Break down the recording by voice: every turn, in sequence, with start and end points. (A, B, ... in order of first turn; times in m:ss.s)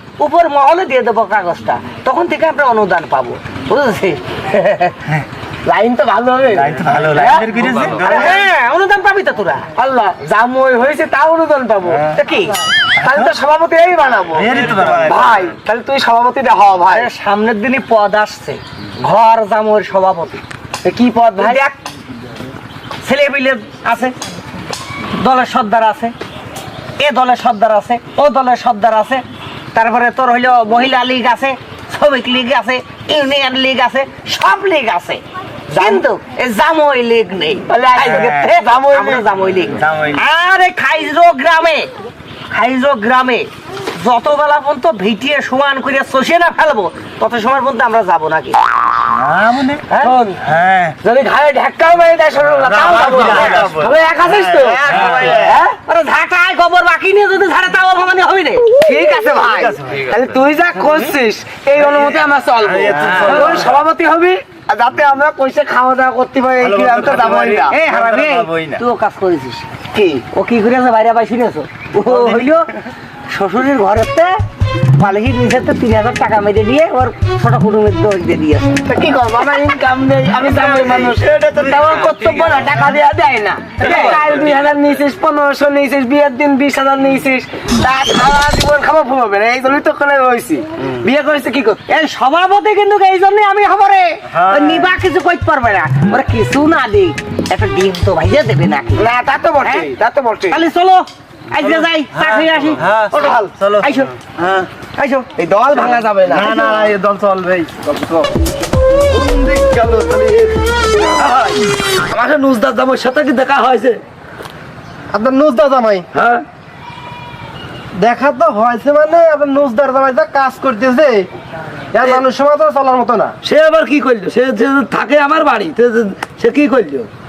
0:00.2-0:05.0 A
0:05.6-0:07.4 B
0:06.5-0:08.3 C
0:07.0-0:09.7 A
0:08.0-0:08.5 B
0:09.7-0:12.1 B
0:11.9-0:12.2 C
0:12.1-0:12.6 A
0:13.0-0:17.1 B
0:13.0-0:13.3 C
0:14.3-0:15.5 C
0:16.9-0:20.4 A
0:20.8-0:21.6 B
0:21.4-0:21.8 A
0:23.0-0:24.1 A
0:25.2-0:26.1 A
0:27.0-0:41.9 A
0:35.7-0:36.0 B
0:37.7-0:39.2 B
0:38.0-0:38.5 C
0:39.7-0:40.2 C
0:42.5-0:50.1 A
0:49.1-0:49.8 C
0:50.0-0:50.5 B
0:50.4-0:51.0 C
0:51.0-0:55.7 B
0:52.6-0:53.8 A
0:52.6-0:55.6 C
0:54.6-0:58.7 A
0:58.7-1:07.8 B
0:59.5-1:00.0 C
1:02.6-1:03.8 C
1:06.6-1:08.8 C
1:07.7-1:09.7 A
1:09.9-1:10.2 B
1:10.3-1:12.7 A
1:12.0-1:12.4 C
1:13.3-1:18.9 A
1:18.8-1:31.8 B
1:21.4-1:22.6 C
1:23.8-1:24.2 A
1:31.8-1:39.1 A
1:34.3-1:34.9 C
1:39.0-1:40.6 B
1:39.6-1:39.9 A
1:40.5-1:42.9 A
1:41.6-1:44.7 C
1:43.2-1:43.5 B
1:43.8-1:44.1 A
1:45.0-1:45.3 A
1:45.4-1:46.6 B
1:46.3-1:48.3 D
1:46.3-1:47.6 C
1:49.1-1:54.0 E
1:55.1-1:56.0 D
1:56.1-1:56.4 E
1:58.0-2:01.3 D
2:01.9-2:03.3 D
2:03.4-2:07.1 E